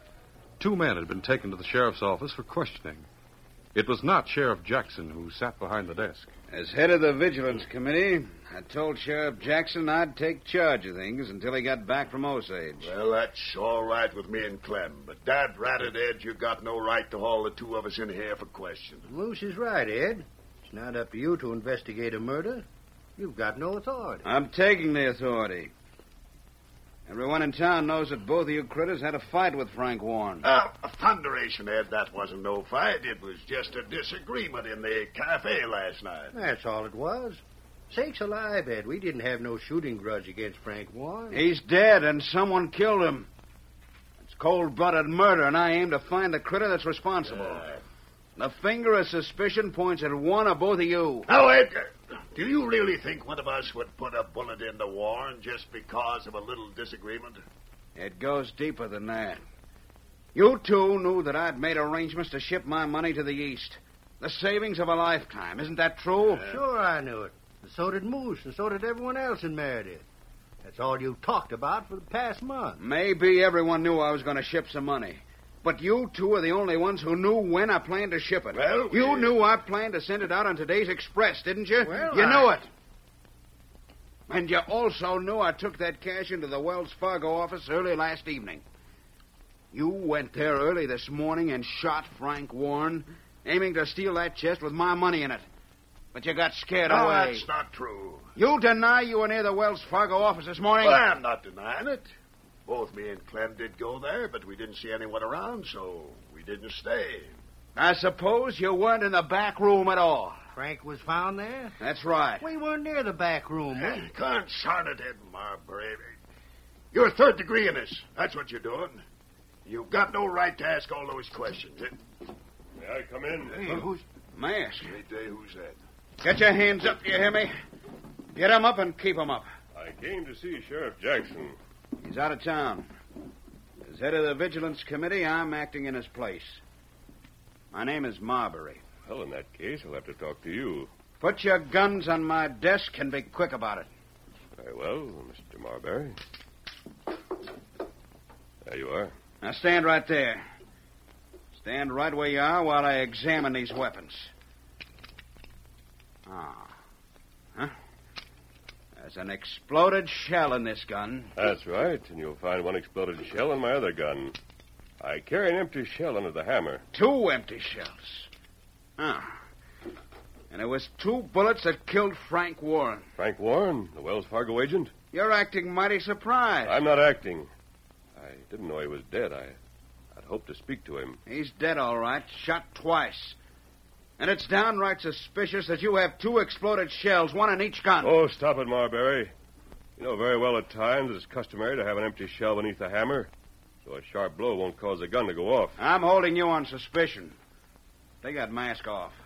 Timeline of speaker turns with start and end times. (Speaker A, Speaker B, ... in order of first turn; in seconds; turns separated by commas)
Speaker A: 0.6-3.1, Speaker A: 3.7-6.3, Speaker B: 6.5-12.9, Speaker C: 12.8-19.1, Speaker D: 19.1-22.6, Speaker D: 23.2-24.2, Speaker B: 24.2-25.7, Speaker B: 27.1-30.4, Speaker C: 30.4-36.4, Speaker D: 36.3-41.4, Speaker B: 41.3-43.3, Speaker B: 44.2-47.6, Speaker C: 47.3-47.8, Speaker B: 48.4-51.3, Speaker C: 51.3-57.4, Speaker B: 58.0-59.4, Speaker B: 60.3-66.5, Speaker C: 66.3-66.6, Speaker D: 66.4-70.0, Speaker D: 70.6-72.8, Speaker B: 72.8-82.7, Speaker C: 78.5-79.3, Speaker D: 81.8-82.5, Speaker B: 84.3-88.6, Speaker B: 89.7-95.4, Speaker B: 96.1-97.5, Speaker C: 96.8-98.3, Speaker B: 98.3-101.0, Speaker C: 100.8-102.1, Speaker C: 102.7-107.4, Speaker B: 107.8-110.4, Speaker D: 110.5-111.8, Speaker B: 111.8-112.5, Speaker D: 112.4-114.0, Speaker C: 113.8-116.1, Speaker C: 116.9-119.0, Speaker C: 119.7-121.9, Speaker E: 122.8-123.8, Speaker C: 123.6-124.0, Speaker B: 124.3-124.9, Speaker C: 124.8-125.8, Speaker B: 126.2-127.5, Speaker B: 128.3-129.4, Speaker E: 129.7-131.6, Speaker B: 132.0-132.9, Speaker B: 133.8-136.6, Speaker B: 137.7-138.8, Speaker E: 139.1-140.9, Speaker B: 141.2-143.9, Speaker E: 144.6-146.2, Speaker E: 148.6-149.1, Speaker B: 149.4-150.4, Speaker B: 151.6-154.3, Speaker B: 156.2-156.7, Speaker B: 159.0-161.3, Speaker E: 161.3-164.4, Speaker E: 165.0-166.8, Speaker B: 166.9-168.3, Speaker B: 169.0-169.3, Speaker B: 170.5-173.0, Speaker E: 173.2-174.9, Speaker B: 175.1-176.8, Speaker E: 176.6-177.5, Speaker E: 178.2-179.6, Speaker E: 180.1-181.2, Speaker B: 181.3-183.4, Speaker B: 184.2-188.1, Speaker E: 188.0-189.3, Speaker E: 190.0-193.3, Speaker E: 193.8-195.8, Speaker B: 195.8-197.3, Speaker B: 198.2-199.2